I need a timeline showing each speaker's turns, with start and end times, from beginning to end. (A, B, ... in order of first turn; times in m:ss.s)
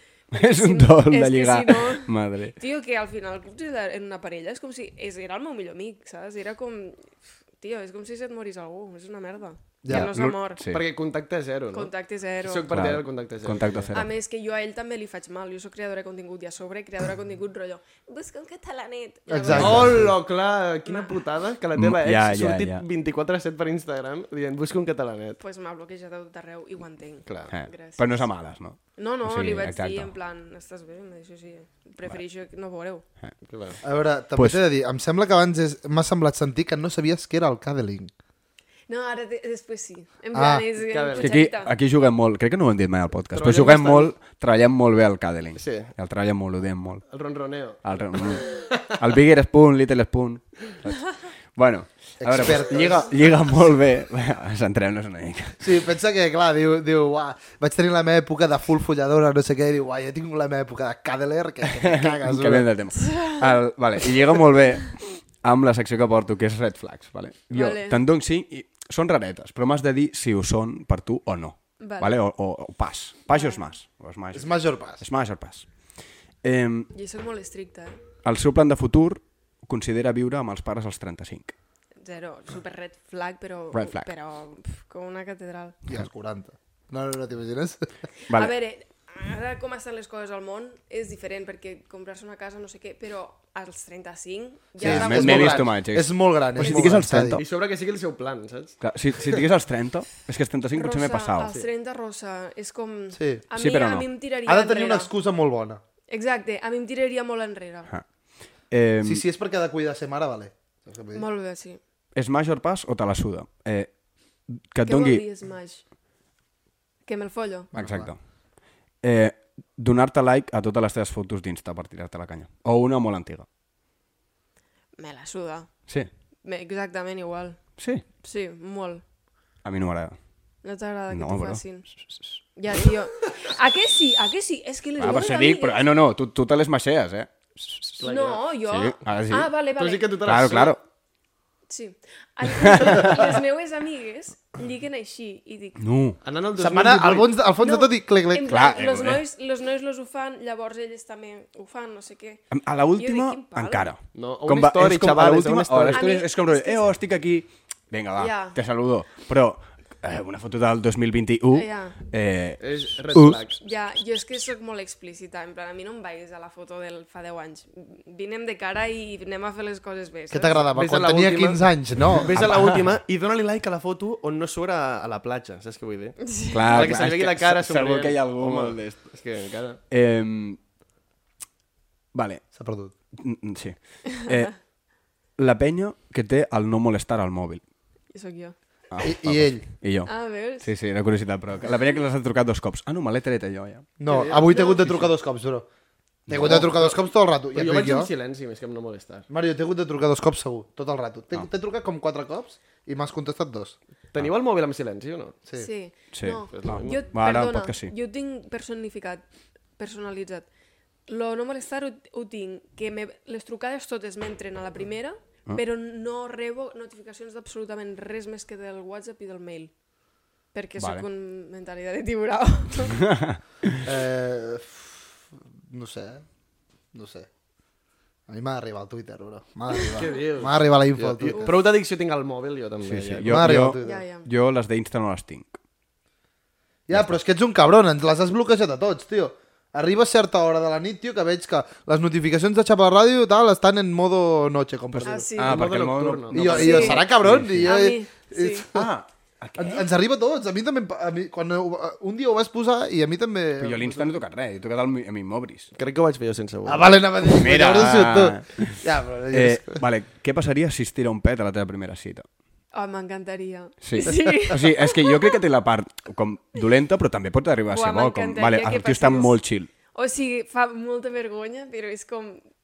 0:00.3-0:10.6 A
0:00.3-0:02.6 B
0:09.8-0:10.1 C
0:09.9-0:10.8 B
0:10.7-0:13.9 D
0:11.7-0:12.7 A
0:12.7-0:14.1 B
0:13.9-0:19.8 A
0:19.3-0:20.1 C
0:19.5-0:20.0 B
0:19.5-0:25.4 D
0:21.8-0:22.8 B
0:25.4-0:28.3 A
0:27.2-0:27.5 D
0:27.5-0:30.1 B
0:29.0-0:33.0 A
0:33.4-0:33.8 D
0:33.8-0:38.1 C
0:34.4-0:34.6 B
0:38.9-0:41.7 A
0:40.3-0:40.7 C
0:40.9-0:41.3 D
0:41.1-0:47.1 B
0:43.3-0:44.1 D
0:45.5-0:45.9 D
0:47.1-0:48.9 D
0:47.8-0:55.7 B
0:52.2-0:53.3 C
0:55.6-1:02.7 C
1:01.7-1:15.7 B
1:03.0-1:03.4 A
1:07.5-1:08.0 A
1:11.8-1:12.1 A
1:13.3-1:13.6 A
1:14.3-1:15.0 C
1:16.4-1:16.9 B
1:16.9-1:18.0 A
1:18.2-1:21.5 B
1:22.0-1:25.8 A
1:23.7-1:24.1 B
1:25.9-1:27.9 C
1:28.3-1:35.7 A
1:34.8-1:37.4 C
1:34.8-1:37.4 B
1:36.6-1:38.8 D
1:38.8-1:41.5 B
1:40.7-1:45.1 A
1:41.4-1:41.7 D
1:43.1-1:43.4 C
1:43.5-1:44.1 B
1:44.4-1:45.8 C
1:46.1-1:47.9 A
1:47.9-1:49.2 B
1:49.0-1:51.2 C
1:51.1-1:51.8 A
1:52.1-1:53.9 B
1:54.5-1:55.2 B
1:54.8-1:55.8 A
1:57.0-1:57.7 A
1:57.7-1:58.1 C
1:57.8-1:58.3 B
1:59.0-2:03.4 B
2:05.0-2:05.9 A
2:06.4-2:07.6 A
2:07.8-2:08.0 B
2:08.2-2:09.0 A
2:09.6-2:10.2 B
2:10.6-2:11.9 A
2:11.1-2:12.2 B
2:12.5-2:15.8 A
2:15.0-2:18.0 B
2:18.0-2:18.4 D
2:18.0-2:20.1 A
2:18.6-2:19.5 B
2:19.8-2:20.8 D
2:20.2-2:20.8 B
2:21.7-2:25.8 A
2:22.5-2:23.3 B
2:25.8-2:26.2 B
2:26.2-2:27.3 D
2:26.6-2:28.5 C
2:27.6-2:33.8 A
2:28.5-2:29.2 B
2:32.5-2:43.4 B
2:34.1-2:36.0 D
2:35.9-2:36.9 A
2:38.2-2:38.6 A
2:41.5-2:42.0 A
2:42.6-2:43.6 D
2:43.6-2:50.7 A
2:50.3-2:52.5 C
2:50.7-2:51.6 D
2:52.1-2:59.8 D
2:52.4-2:52.8 B
2:56.2-2:56.6 A
2:56.5-2:59.1 B
2:59.9-3:00.6 B
3:02.1-3:02.5 B
3:02.5-3:02.9 C
3:03.1-3:04.7 B
3:05.4-3:07.6 B
3:08.1-3:08.5 A
3:08.9-3:13.9 B
3:09.0-3:09.6 C
3:10.0-3:10.7 A
3:14.0-3:15.7 C
3:14.0-3:15.1 D
3:16.3-3:16.7 B
3:16.3-3:18.1 C
3:16.4-3:17.0 D
3:17.5-3:19.3 D
3:19.3-3:23.8 C
3:24.1-3:25.4 D
3:25.6-3:29.2 A
3:26.1-3:27.9 B
3:26.5-3:27.0 D
3:29.8-3:30.5 A
3:31.1-3:39.8 A
3:40.5-3:43.0 A
3:40.8-3:41.0 B
3:43.1-3:43.4 B
3:43.8-3:45.2 C
3:45.7-3:46.2 C
3:46.9-3:47.3 C
3:48.3-3:51.6 C
3:49.9-3:53.6 D
3:52.8-3:55.6 B
3:53.2-3:54.0 C
3:53.8-3:54.2 A
3:56.9-4:05.3 C
3:56.9-3:57.2 B
4:04.9-4:07.8 B
4:05.0-4:05.6 A
4:05.4-4:07.0 D
4:06.3-4:08.9 C
4:06.5-4:07.0 A
4:07.6-4:08.6 A
4:08.7-4:09.9 B
4:09.6-4:14.1 C
4:13.6-4:15.7 B
4:15.7-4:16.9 D
4:16.6-4:19.8 C
4:17.3-4:22.2 B
4:22.7-4:25.4 A
4:23.8-4:29.7 B
4:27.7-4:29.3 A
4:29.9-4:32.4 A